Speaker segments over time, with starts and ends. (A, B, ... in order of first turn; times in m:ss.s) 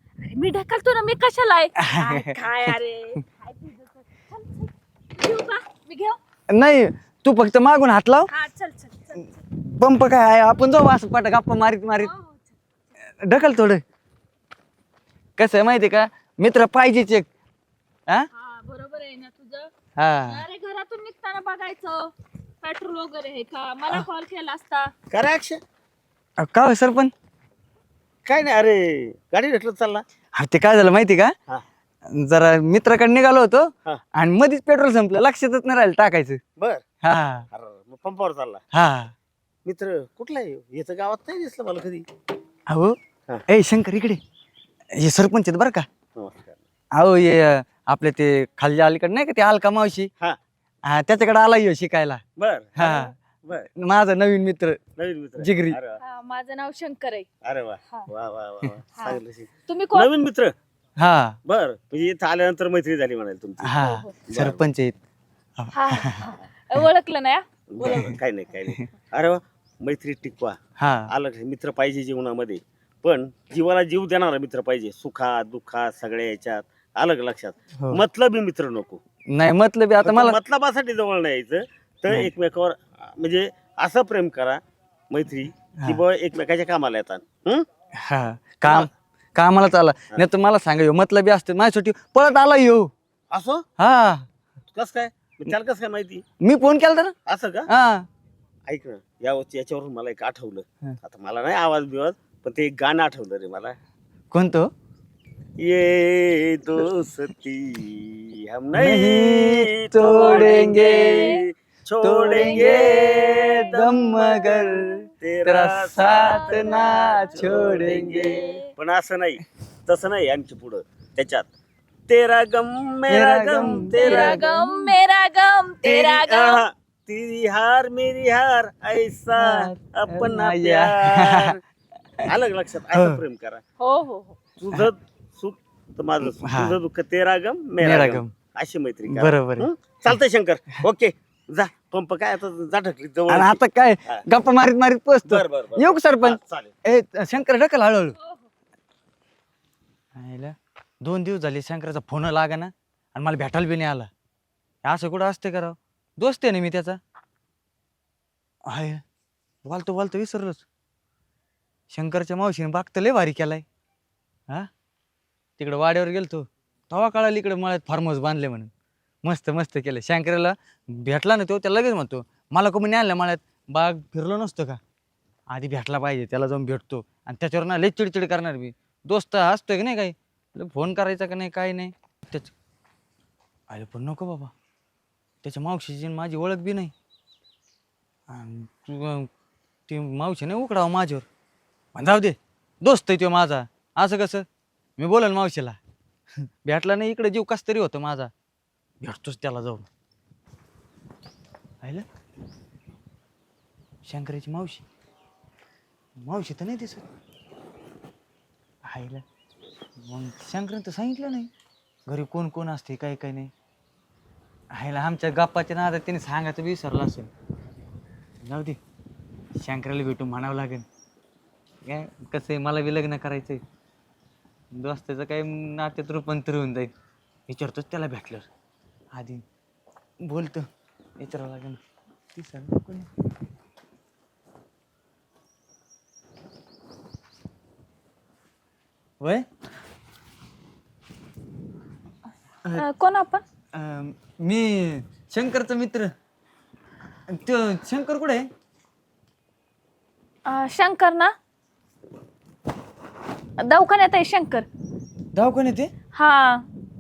0:00.2-0:06.2 A
0:01.8-0:02.8 B
0:06.5-0:08.3 B
0:08.3-0:09.4 A
0:09.5-0:12.1 B
0:12.0-0:12.6 A
0:13.2-0:13.8 B
0:15.4-0:17.3 B
0:18.3-0:19.7 A
0:20.0-0:20.4 B
0:20.3-0:22.1 A
0:22.6-0:24.9 A
0:25.1-0:25.6 C
0:26.4-0:27.1 B
0:28.2-0:30.0 C
0:30.4-0:31.3 B
0:32.1-0:36.4 B
0:36.6-0:36.8 C
0:37.0-0:37.5 B
0:37.5-0:38.6 C
0:38.7-0:39.1 B
0:39.6-0:42.1 C
0:42.7-0:43.0 B
0:43.5-0:44.2 B
0:45.0-0:45.9 B
0:46.2-0:46.6 C
0:46.9-0:50.1 B
0:50.9-0:52.2 B
0:52.4-0:53.7 C
0:52.8-0:54.8 B
0:55.0-0:56.0 C
0:55.4-0:55.8 B
0:56.0-0:57.3 A
0:57.4-1:00.5 C
0:59.0-1:00.1 A
1:01.0-1:01.4 B
1:01.5-1:04.6 C
1:03.6-1:05.0 B
1:03.8-1:04.1 A
1:05.6-1:06.3 B
1:05.7-1:07.4 A
1:07.7-1:10.6 C
1:07.8-1:08.2 B
1:10.8-1:11.1 B
1:11.1-1:19.0 C
1:19.3-1:20.4 B
1:20.0-1:24.6 C
1:25.1-1:27.7 C
1:28.0-1:32.9 B
1:28.6-1:28.9 C
1:33.3-1:33.6 C
1:33.8-1:34.3 B
1:34.7-1:36.2 C
1:36.4-1:37.1 B
1:37.3-1:37.7 C
1:37.7-1:38.1 B
1:38.7-1:43.8 C
1:44.3-1:44.7 B
1:45.6-2:01.5 C
1:48.8-1:51.3 B
1:50.2-1:51.4 A
1:52.0-1:58.4 B
1:52.3-1:53.0 A
1:56.1-1:57.6 A
1:58.2-1:58.7 A
2:02.1-2:04.5 C
2:03.1-2:04.6 B
2:03.9-2:06.6 A
2:05.8-2:11.6 C
2:09.4-2:11.5 B
2:12.2-2:13.6 C
2:12.9-2:13.2 B
2:13.8-2:14.4 A
2:14.6-2:24.2 C
2:16.4-2:16.8 B
2:17.8-2:18.3 B
2:19.1-2:19.7 B
2:23.3-2:28.2 B
2:25.3-2:26.7 C
2:30.2-2:34.1 B
2:34.8-2:37.0 B
2:38.7-2:39.0 B
2:39.6-2:40.7 B
2:41.9-2:43.6 B
2:45.6-2:48.7 B
2:49.2-2:54.8 B
2:55.5-3:02.5 B
3:03.7-3:04.5 B
3:05.4-3:06.9 B
3:08.3-3:09.3 B
3:09.9-3:11.3 B
3:12.0-3:14.5 B
3:15.0-3:15.8 B
3:16.6-3:18.3 B
3:19.0-3:19.9 B
3:24.1-3:24.9 B
3:26.2-3:27.0 B
3:28.9-3:29.2 B
3:30.0-3:31.5 B
3:32.1-3:33.5 B
3:34.7-3:37.3 B
3:38.4-3:38.8 B
3:39.6-3:40.8 B
3:41.8-3:43.6 B
3:44.7-3:46.9 B
3:47.5-3:48.5 B
3:49.1-3:49.4 B
3:50.2-3:50.7 B
3:51.2-3:51.8 B
3:52.4-3:53.1 B
3:59.2-3:59.4 B
4:02.7-4:03.4 A
4:03.7-4:06.1 B
4:07.3-4:08.5 B
4:10.5-4:11.3 A
4:13.6-4:14.7 A
4:15.3-4:15.9 B
4:16.1-4:16.6 A